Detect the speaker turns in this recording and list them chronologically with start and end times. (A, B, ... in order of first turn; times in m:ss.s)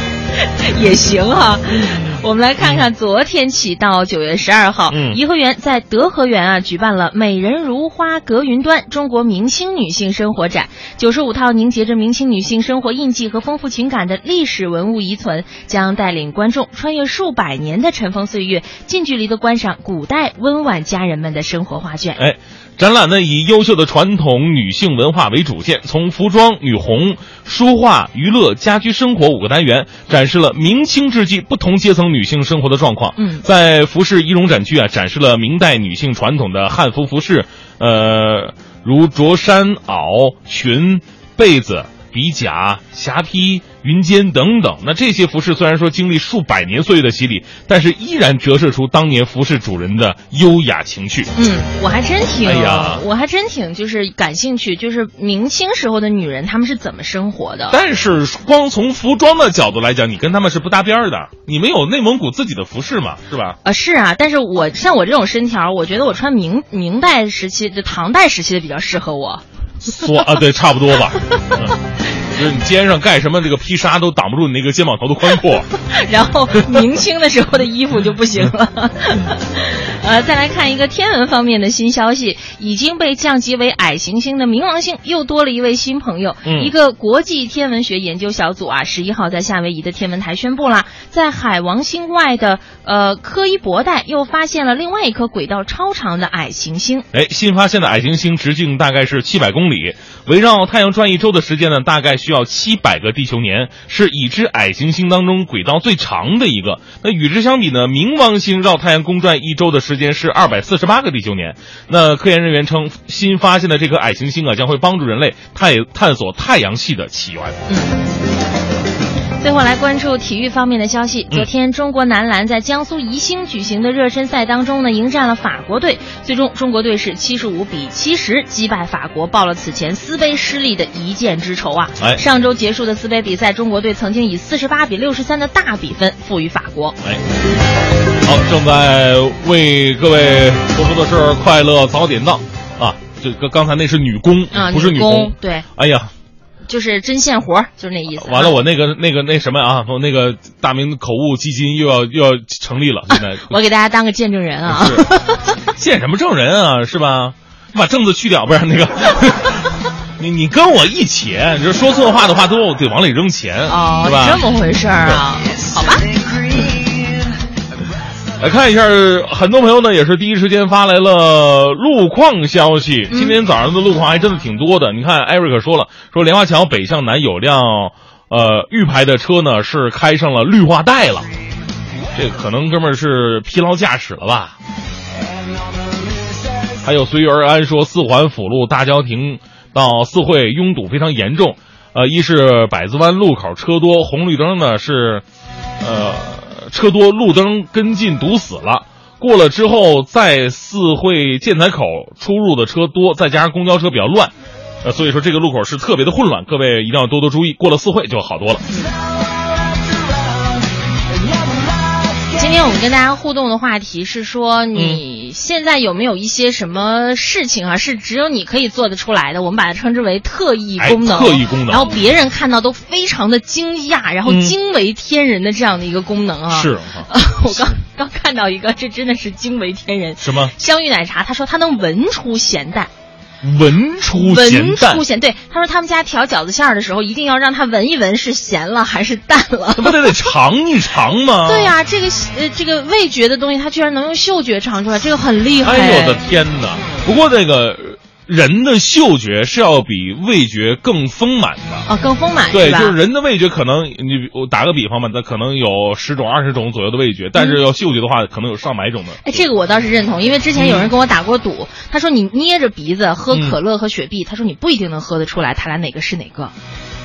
0:00.4-0:22.2 A
0:01.8-0:02.8 B
0:04.9-0:05.2 B
0:22.2-0:51.3 B
0:33.2-0:33.4 A
0:51.3-0:57.8 A
0:52.4-0:53.0 B
0:57.7-1:03.6 B
1:03.6-1:09.4 A
1:09.8-1:15.7 B
1:15.8-1:37.0 A
1:26.4-1:26.7 B
1:37.1-1:57.6 B
1:57.7-1:58.0 A
1:59.4-2:17.0 A
2:18.2-2:26.1 B
2:24.5-2:25.6 A
2:26.6-2:28.6 A
2:28.2-2:33.6 B
2:33.1-2:35.6 A
2:34.6-2:35.0 B
2:35.7-2:44.4 B
2:43.7-2:46.1 A
2:48.4-3:01.3 B
2:53.1-2:53.4 A
3:02.1-3:04.6 B
3:06.8-3:15.2 B
3:15.8-3:24.3 B
3:24.8-3:28.6 B
3:32.3-3:52.9 A
3:34.7-3:35.0 B
3:40.8-3:41.9 B
3:44.2-3:44.5 B
3:46.5-3:47.1 B
3:50.2-3:50.5 B
3:53.4-3:55.0 B
3:54.1-4:00.1 A
3:59.8-4:01.7 B
4:01.4-4:06.2 A
4:05.6-4:11.9 B
4:11.8-4:13.0 A
4:12.5-4:19.4 B
4:19.2-4:26.5 A
4:20.5-4:20.9 B
4:23.3-4:23.6 B